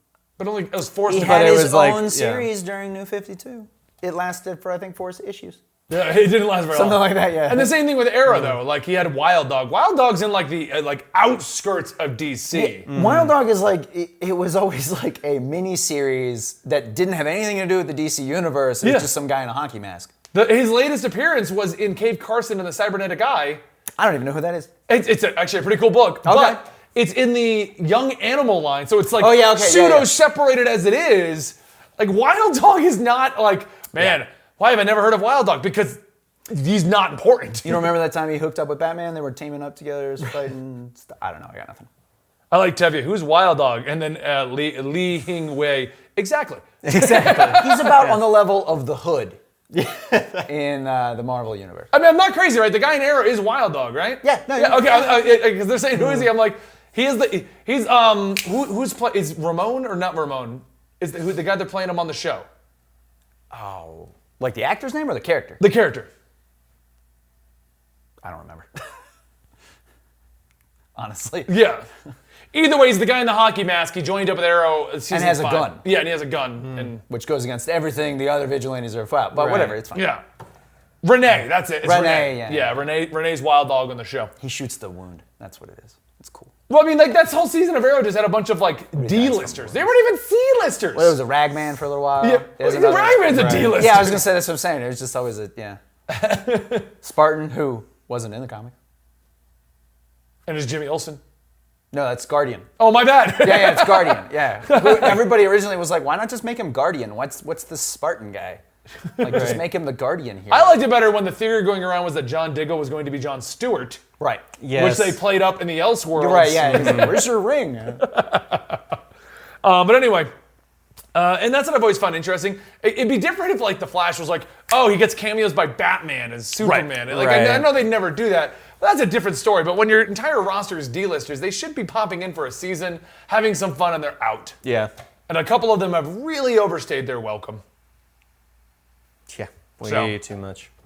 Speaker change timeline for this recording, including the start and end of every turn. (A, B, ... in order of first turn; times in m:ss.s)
0:00.4-0:01.7 A
0:01.1-0:05.6 B
0:01.1-0:02.5 C
0:05.9-0:12.9 A
0:06.7-0:07.7 B
0:12.5-0:20.1 B
0:12.9-0:13.3 C
0:18.8-0:19.1 A
0:20.3-0:23.6 A
0:24.0-0:24.7 B
0:24.9-0:37.9 A
0:26.2-0:26.6 B
0:29.2-0:30.1 B
0:37.6-0:41.9 B
0:42.5-0:47.9 A
0:46.8-0:48.2 C
0:47.0-0:49.4 B
0:49.7-0:50.5 C
0:50.4-0:51.9 B
0:51.9-1:02.4 A
0:54.2-0:55.5 B
1:03.5-1:05.6 B
1:05.6-1:06.1 A
1:08.2-1:08.7 B
1:10.9-1:11.5 B
1:11.5-1:11.8 A
1:12.5-1:17.0 A
1:15.1-1:15.8 B
1:17.1-1:20.1 B
1:19.3-1:19.8 C
1:19.9-1:20.2 A
1:21.0-1:24.3 A
1:21.8-1:22.8 B
1:24.4-1:26.5 B
1:26.7-1:31.2 A
1:29.0-1:29.9 B
1:31.0-1:35.8 B
1:32.2-1:34.2 A
1:33.3-1:33.8 C
1:36.1-1:36.9 A
1:37.0-1:38.7 B
1:40.5-1:41.2 A
1:41.9-1:42.7 B
1:42.8-1:45.3 A
1:43.4-1:48.6 B
1:49.2-1:49.6 A
1:49.2-1:50.8 B
1:49.3-1:49.6 C
1:50.5-1:54.0 A
1:54.2-1:54.5 B
1:54.6-1:55.2 C
1:54.7-1:57.2 A
1:56.1-1:58.0 B
1:56.7-1:57.2 C
1:58.0-1:58.8 A
1:59.6-2:00.3 A
2:01.1-2:14.6 A
2:06.6-2:06.9 B
2:07.1-2:07.7 C
2:14.6-2:14.9 C
2:15.3-2:17.6 A
2:19.3-2:20.7 C
2:19.8-2:20.1 A